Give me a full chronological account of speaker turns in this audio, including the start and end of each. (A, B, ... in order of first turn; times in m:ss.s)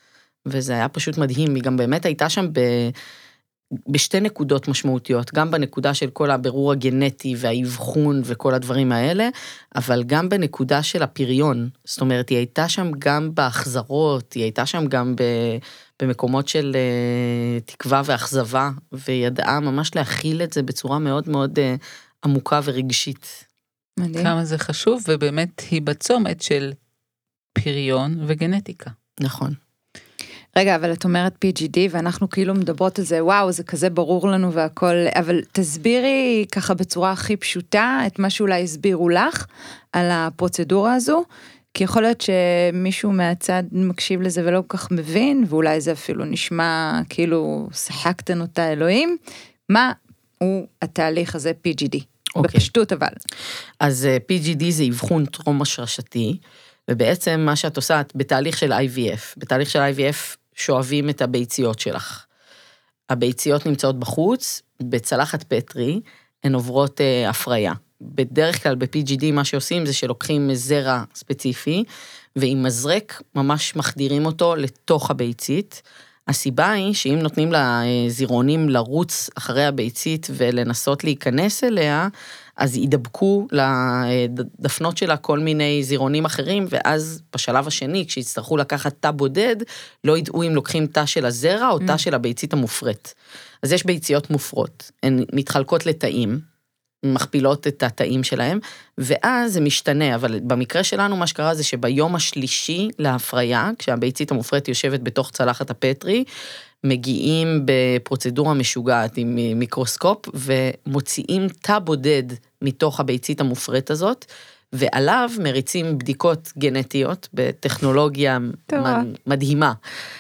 0:00.5-0:02.9 A
0:03.9-0:23.4 A
0:24.0-0:24.3 B
0:24.2-0:26.8 C
0:27.5-0:28.9 C
0:29.2-0:29.6 A
0:30.6-0:49.2 B
0:49.7-0:53.2 B
0:52.4-0:52.7 A
0:53.8-1:02.2 A
1:03.1-1:11.8 A
1:12.4-1:36.4 A
1:37.0-1:46.3 A
1:46.8-1:59.8 A
1:58.7-1:59.1 B